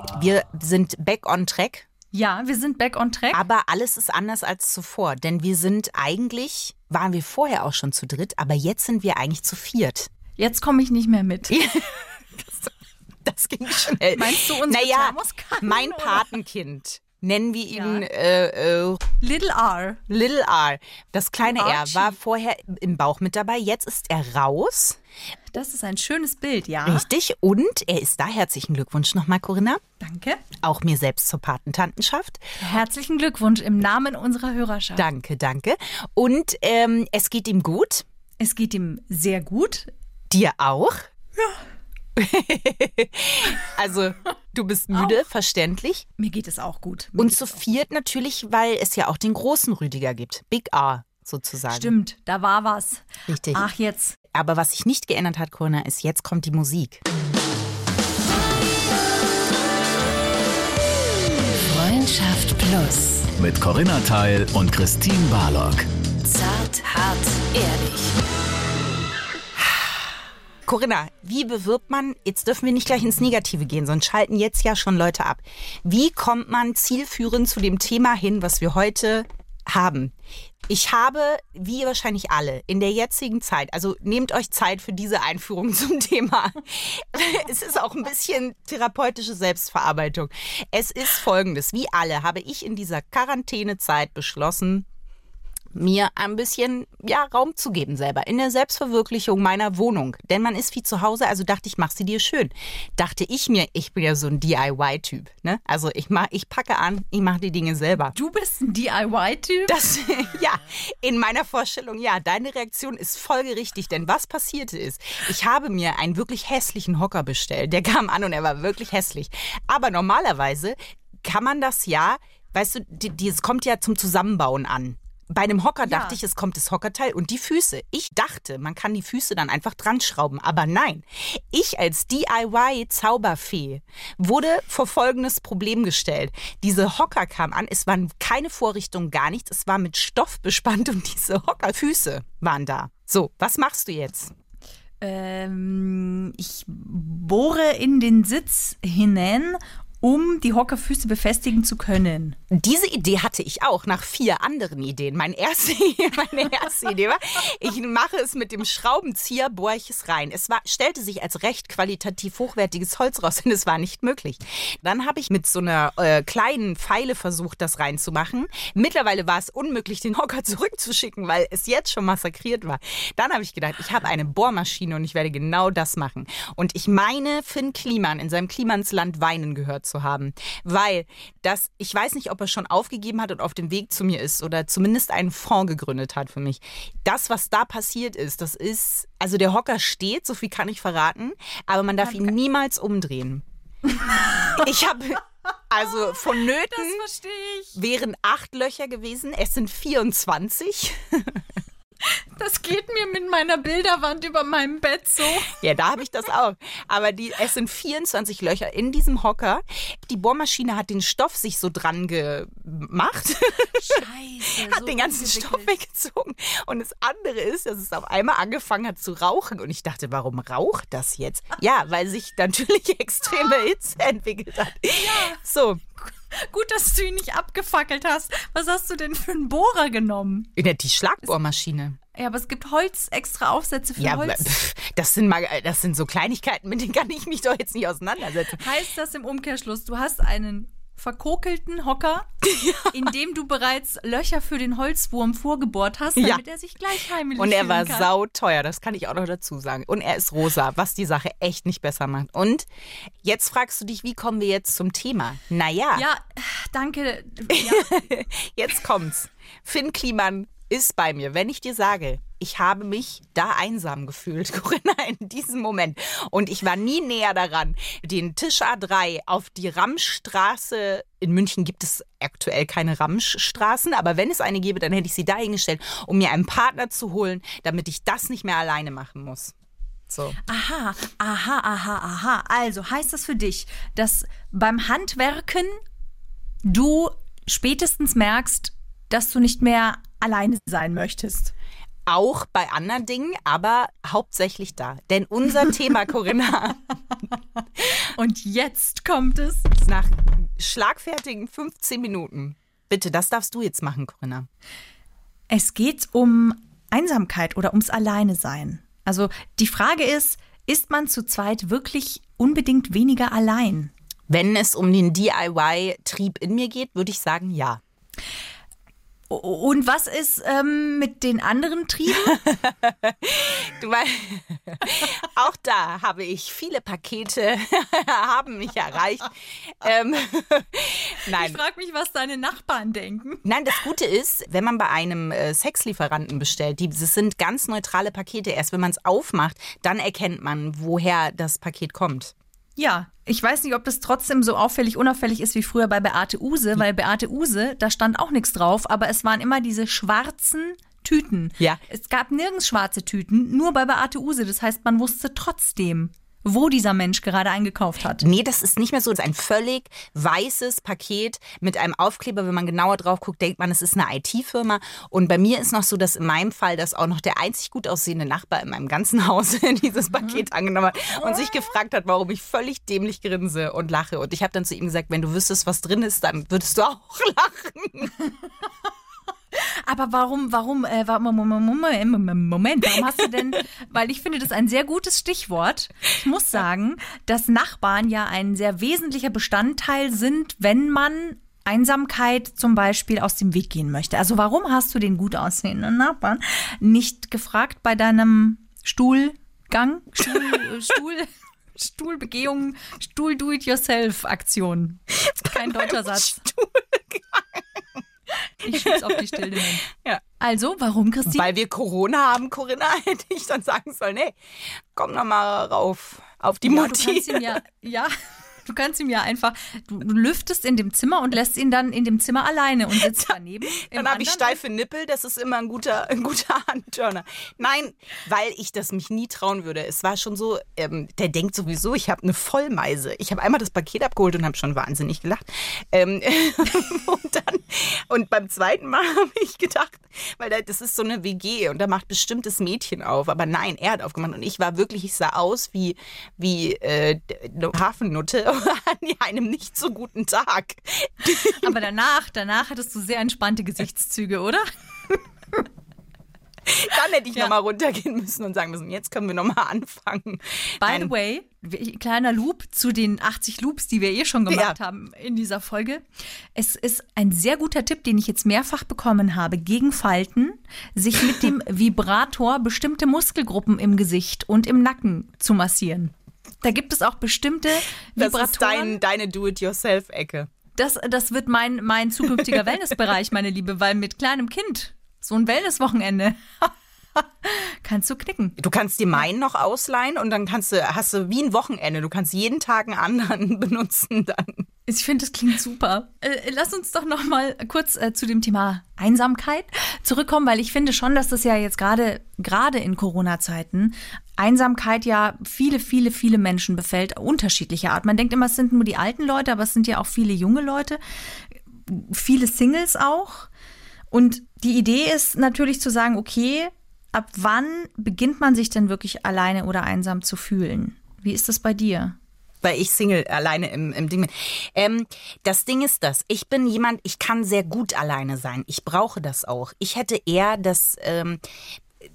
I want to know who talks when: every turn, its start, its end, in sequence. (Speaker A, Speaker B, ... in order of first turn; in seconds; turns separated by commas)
Speaker A: 0.1-1.9, Speaker B: 2.1-3.4, Speaker A: 3.3-10.1, Speaker B: 10.4-11.5, Speaker A: 11.5-19.0, Speaker B: 14.1-16.3, Speaker B: 17.7-18.1, Speaker B: 19.2-20.0, Speaker A: 20.1-25.0, Speaker B: 21.4-22.1, Speaker B: 25.5-27.1, Speaker A: 26.8-29.8, Speaker B: 30.0-30.4, Speaker A: 30.6-32.4, Speaker B: 32.6-35.1, Speaker A: 34.9-38.0, Speaker B: 38.4-39.9, Speaker A: 40.3-41.1, Speaker A: 42.1-46.0, Speaker B: 44.9-45.2, Speaker B: 46.2-47.6, Speaker A: 47.2-51.9, Speaker B: 51.7-54.2, Speaker A: 53.3-53.6, Speaker A: 54.3-57.0, Speaker C: 61.6-63.3, Speaker D: 63.4-65.9, Speaker C: 66.2-68.2, Speaker A: 70.7-80.1, Speaker A: 80.7-94.8, Speaker A: 95.7-108.1, Speaker B: 108.1-109.8, Speaker A: 109.7-144.3, Speaker B: 125.8-126.2, Speaker B: 145.0-152.4, Speaker A: 152.5-193.4, Speaker B: 192.0-192.3, Speaker A: 194.3-197.0, Speaker B: 196.4-197.8, Speaker A: 197.8-201.5, Speaker B: 202.1-205.5, Speaker A: 205.5-214.0, Speaker B: 213.7-215.7, Speaker A: 214.6-225.8, Speaker B: 224.9-225.4, Speaker B: 226.3-230.5, Speaker A: 230.6-232.0, Speaker B: 232.1-234.5, Speaker A: 234.0-238.6, Speaker B: 238.6-242.3, Speaker A: 242.4-242.9, Speaker B: 242.9-248.1, Speaker A: 246.2-246.4, Speaker A: 247.3-252.7, Speaker A: 253.2-256.1, Speaker B: 255.9-258.0, Speaker A: 257.5-279.5, Speaker A: 280.1-280.4, Speaker B: 280.4-285.8, Speaker B: 286.6-291.5, Speaker A: 292.1-296.8, Speaker B: 297.8-299.7, Speaker A: 299.8-304.5, Speaker B: 305.5-313.9, Speaker A: 314.3-317.8, Speaker B: 319.3-322.4, Speaker A: 322.3-331.6, Speaker B: 331.3-333.4, Speaker A: 333.4-342.3, Speaker B: 342.8-358.2, Speaker A: 358.2-378.1, Speaker B: 379.5-406.4, Speaker A: 405.4-407.8, Speaker B: 408.6-409.9, Speaker A: 408.6-410.2, Speaker B: 410.4-411.5, Speaker A: 411.3-414.4, Speaker A: 414.9-417.6, Speaker B: 416.6-418.1, Speaker B: 418.6-424.6, Speaker A: 423.0-451.8, Speaker B: 451.3-455.2, Speaker A: 456.6-461.1, Speaker B: 460.8-466.0, Speaker A: 464.5-464.8, Speaker B: 466.5-479.0, Speaker A: 478.2-480.5, Speaker B: 480.7-488.6, Speaker A: 488.6-494.7, Speaker B: 494.9-511.0, Speaker B: 511.9-513.5, Speaker B: 514.1-522.1, Speaker A: 522.6-531.4